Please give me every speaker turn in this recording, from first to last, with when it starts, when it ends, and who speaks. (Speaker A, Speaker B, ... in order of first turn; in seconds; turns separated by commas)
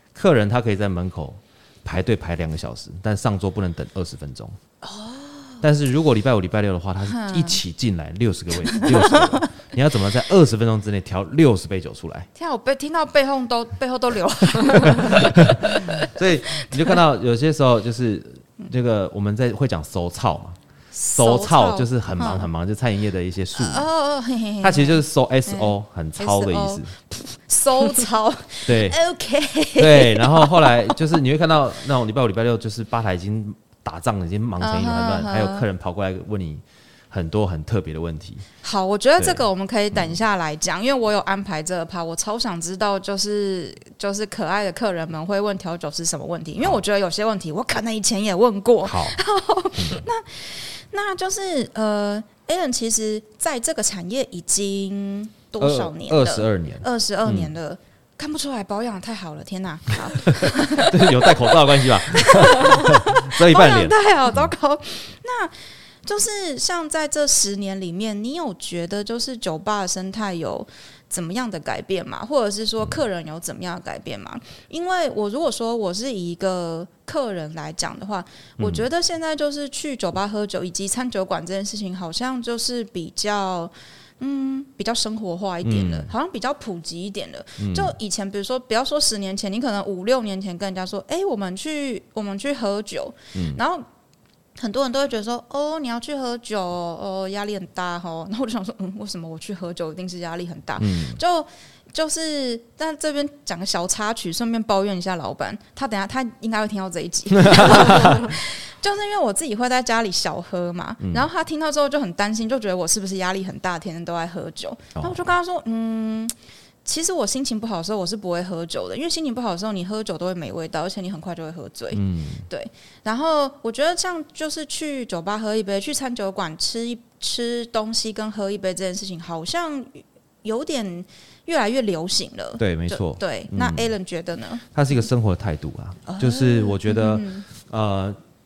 Speaker A: 0.1-4.6, Speaker B: 4.8-5.6, Speaker A: 5.6-12.3, Speaker B: 7.1-7.6, Speaker B: 8.7-9.4, Speaker B: 12.3-16.9, Speaker A: 14.8-20.6, Speaker B: 20.9-22.5, Speaker A: 21.1-23.9, Speaker B: 23.6-31.0, Speaker A: 24.6-26.9, Speaker A: 28.6-29.0, Speaker A: 29.8-38.5, Speaker B: 34.6-35.6, Speaker B: 38.6-65.5, Speaker A: 39.2-40.2, Speaker A: 48.8-49.2, Speaker A: 49.8-50.0, Speaker A: 55.6-57.5, Speaker A: 60.2-64.0, Speaker B: 66.0-93.8, Speaker A: 78.6-78.8, Speaker A: 85.6-86.1, Speaker A: 87.6-87.9, Speaker A: 93.3-93.6, Speaker B: 94.6-116.3, Speaker A: 100.8-101.2, Speaker A: 107.4-108.3, Speaker A: 111.0-111.3, Speaker A: 115.0-115.3, Speaker B: 116.8-134.6, Speaker A: 121.9-122.4, Speaker A: 132.6-133.9, Speaker A: 134.7-138.2, Speaker B: 136.1-137.4